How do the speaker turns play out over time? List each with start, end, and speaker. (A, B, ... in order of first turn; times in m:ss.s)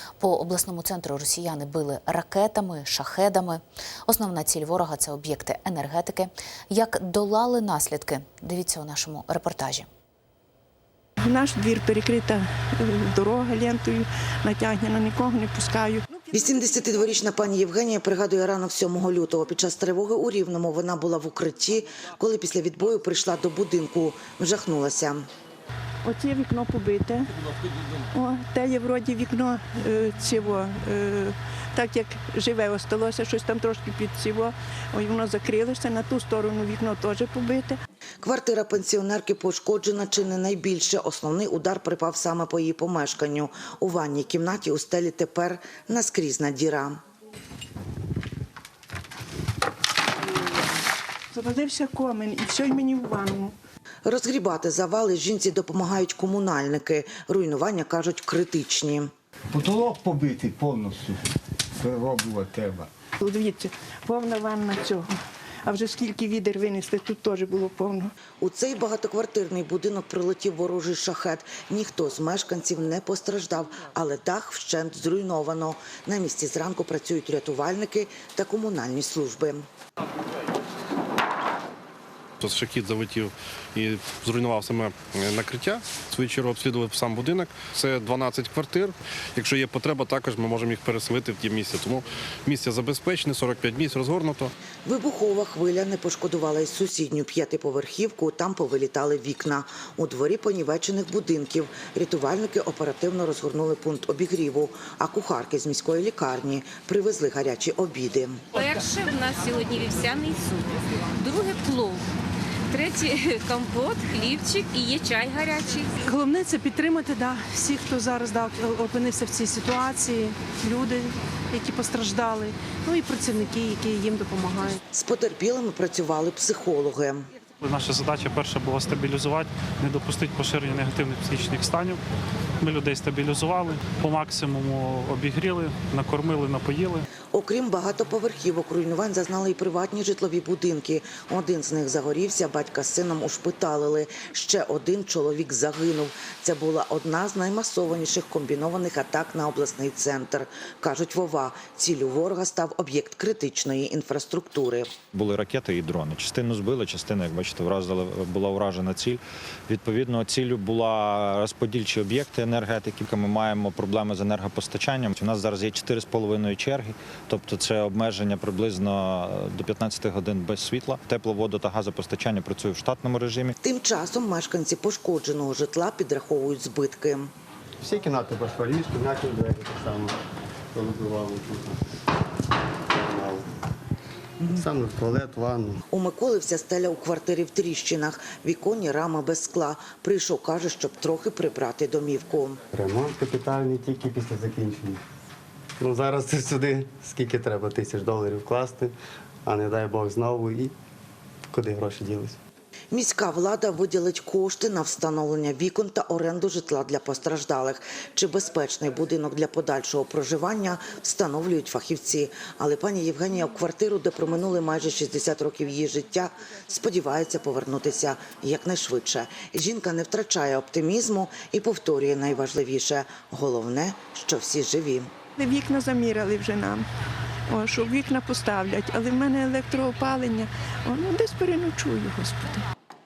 0:00.2-0:09.9 A
0:11.2-0:16.1 B
0:16.3-0:25.2 C
0:26.0-0:27.3 B
0:28.1-0:37.8 B
0:38.2-0:47.0 C
0:51.3-0:53.5 B
0:54.0-0:59.1 C
0:59.5-1:01.2 D
1:01.8-1:02.9 D
1:03.2-1:05.1 B
1:05.6-1:08.1 B
1:08.4-1:19.6 C
1:22.4-1:34.5 E
1:34.8-1:48.4 C
1:48.5-1:52.0 F
1:52.7-1:56.0 F
1:56.0-2:04.8 G
2:04.9-2:07.2 C
2:07.6-2:12.0 H
2:12.6-2:17.0 H
2:17.3-2:34.9 C
2:35.1-2:53.5 I
2:53.6-2:57.3 C
2:57.8-3:00.2 J
3:00.7-3:01.8 J
3:02.9-3:03.5 J
3:04.4-3:05.8 J
3:05.9-3:12.6 C
3:12.7-3:15.0 J
3:15.8-3:18.9 J
3:19.4-3:20.7 J
3:21.5-3:22.4 J
3:22.9-3:45.1 C
3:45.4-3:46.9 B
3:47.5-3:52.6 B